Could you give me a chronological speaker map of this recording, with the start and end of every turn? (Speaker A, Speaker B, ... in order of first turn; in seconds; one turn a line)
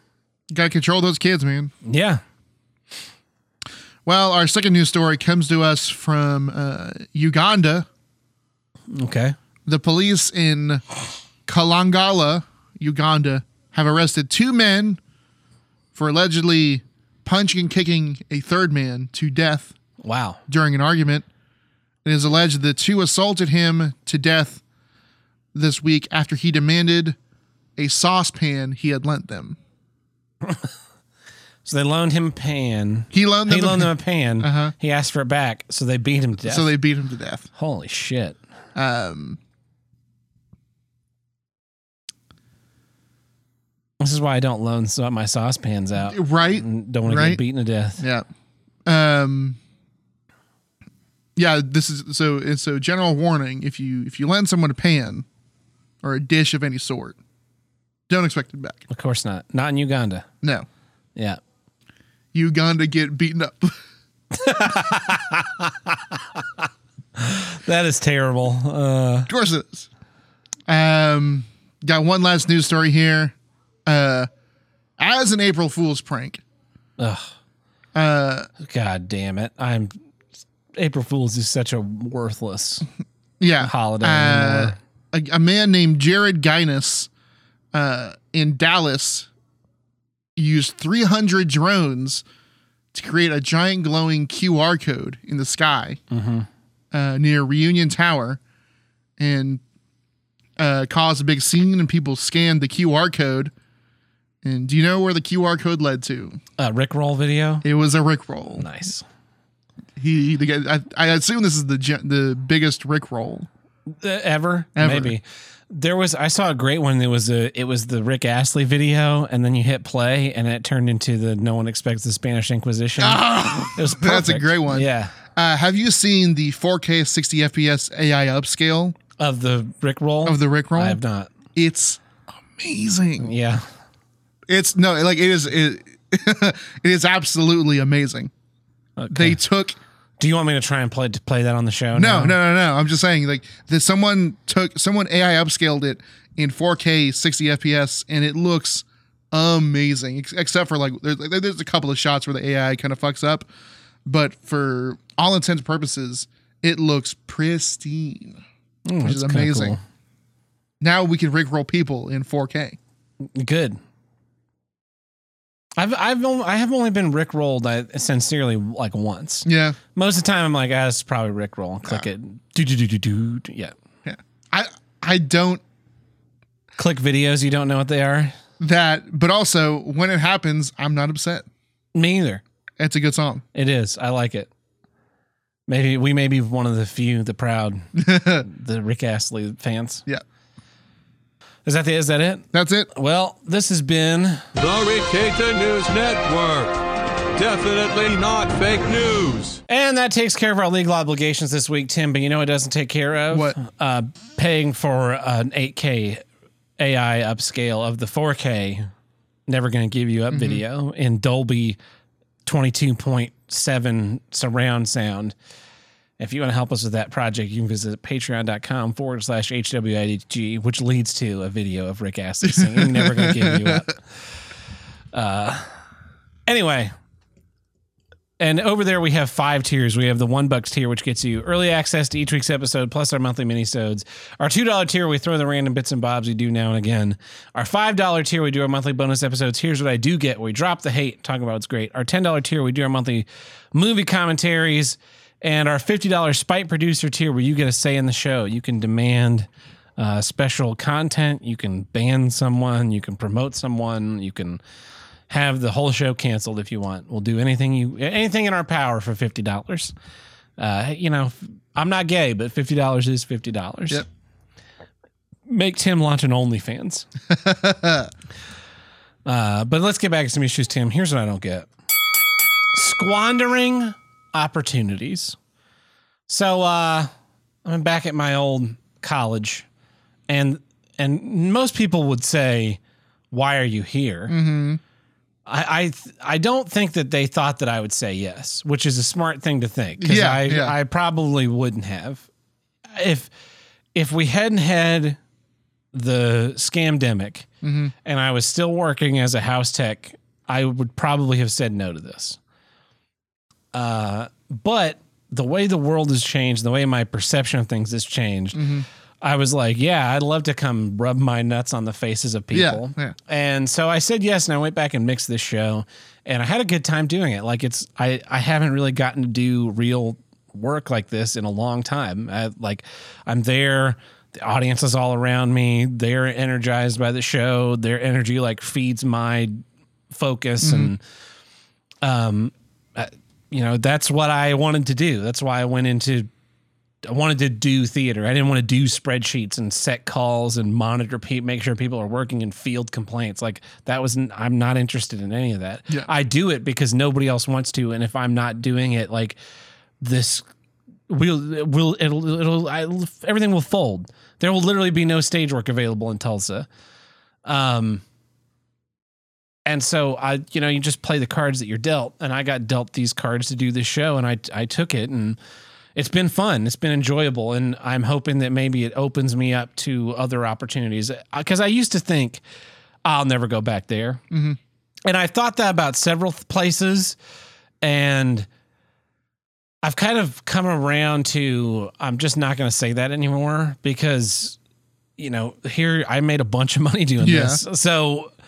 Speaker A: 0.5-1.7
Speaker B: 1.8-2.2
Speaker A: 4.0-7.9
Speaker B: 8.9-9.3
Speaker A: 9.7-10.8
Speaker A: 11.5-15.0
Speaker A: 15.9-19.7
Speaker B: 20.0-20.4
Speaker A: 20.5-21.2
Speaker A: 22.0-24.6
Speaker A: 25.5-27.2
Speaker A: 27.8-29.6
Speaker B: 31.6-36.7
Speaker A: 33.1-34.7
Speaker A: 36.4-37.5
Speaker B: 37.5-38.4
Speaker A: 38.7-39.4
Speaker B: 44.0-48.0
Speaker A: 46.0-47.4
Speaker A: 48.0-48.2
Speaker A: 48.9-49.6
Speaker A: 51.4-55.2
Speaker A: 56.0-57.2
Speaker A: 58.1-58.8
Speaker B: 58.9-60.3
Speaker A: 62.3-63.8
Speaker B: 64.3-66.6
Speaker B: 67.2-69.3
Speaker A: 69.3-69.9
Speaker A: 70.7-73.3
Speaker A: 73.8-74.3
Speaker A: 75.0-76.4
Speaker B: 77.0-77.3
Speaker A: 77.9-78.5
Speaker B: 78.6-79.9
Speaker B: 80.7-82.8
Speaker A: 83.4-87.1
Speaker B: 83.6-84.8
Speaker A: 87.7-89.3
Speaker A: 90.3-92.2
Speaker A: 92.9-96.0
Speaker B: 96.1-96.5
Speaker A: 96.9-98.4
Speaker A: 99.2-99.6
Speaker A: 100.6-103.5
Speaker A: 104.4-106.4
Speaker B: 106.6-107.6
Speaker A: 107.6-108.7
Speaker B: 108.6-109.0
Speaker A: 110.0-113.5
Speaker B: 114.0-125.2
Speaker A: 114.8-115.1
Speaker A: 123.0-128.9
Speaker B: 129.2-131.3
Speaker A: 130.2-131.0
Speaker A: 131.5-132.0
Speaker A: 132.5-133.3
Speaker B: 133.2-133.7
Speaker A: 134.5-138.3
Speaker B: 139.0-139.4
Speaker A: 139.1-139.8
Speaker B: 140.2-142.4
Speaker A: 141.9-153.5
Speaker A: 154.1-158.4
Speaker B: 158.8-159.8
Speaker A: 159.0-159.8
Speaker A: 160.8-162.8
Speaker B: 163.3-163.8
Speaker B: 165.8-173.7
Speaker A: 169.4-169.8
Speaker A: 174.0-175.6
Speaker B: 176.8-178.3
Speaker A: 178.6-181.4
Speaker B: 181.9-182.4
Speaker A: 182.8-183.4
Speaker B: 183.5-184.5
Speaker B: 185.7-190.0
Speaker A: 187.9-188.4
Speaker B: 191.6-194.4
Speaker A: 192.5-192.9
Speaker C: 194.5-196.8
Speaker C: 197.3-199.6
Speaker B: 199.7-206.2
Speaker A: 203.3-203.6
Speaker B: 206.8-208.9
Speaker B: 209.5-211.8
Speaker A: 210.3-210.6
Speaker B: 212.4-215.3
Speaker B: 216.2-224.1
Speaker A: 222.4-223.8
Speaker B: 225.1-225.8
Speaker B: 226.5-226.9
Speaker B: 228.4-254.6
Speaker B: 255.3-259.9
Speaker B: 260.6-264.0
Speaker B: 265.5-267.1
Speaker A: 267.3-268.1
Speaker B: 269.2-271.7
Speaker B: 272.7-275.4
Speaker B: 276.3-277.1
Speaker B: 277.6-279.6
Speaker B: 280.3-282.8
Speaker B: 283.3-284.4
Speaker A: 284.3-284.8
Speaker B: 285.4-292.2
Speaker A: 290.0-290.7
Speaker B: 292.9-293.3
Speaker B: 293.9-295.2
Speaker B: 295.9-297.5
Speaker A: 297.6-297.9
Speaker B: 298.0-302.4
Speaker B: 303.7-308.7
Speaker A: 308.5-308.9
Speaker B: 309.2-329.6
Speaker A: 312.5-313.1
Speaker B: 330.1-331.0
Speaker A: 330.6-330.9
Speaker B: 332.0-336.3
Speaker B: 337.0-349.4
Speaker B: 350.0-350.4
Speaker B: 351.1-356.7
Speaker B: 357.4-358.0
Speaker B: 359.6-365.4
Speaker B: 365.9-372.4
Speaker B: 373.0-374.2
Speaker A: 374.3-374.6
Speaker B: 375.0-377.2
Speaker B: 377.8-378.5
Speaker B: 379.8-384.6
Speaker B: 385.2-388.3
Speaker A: 387.2-387.6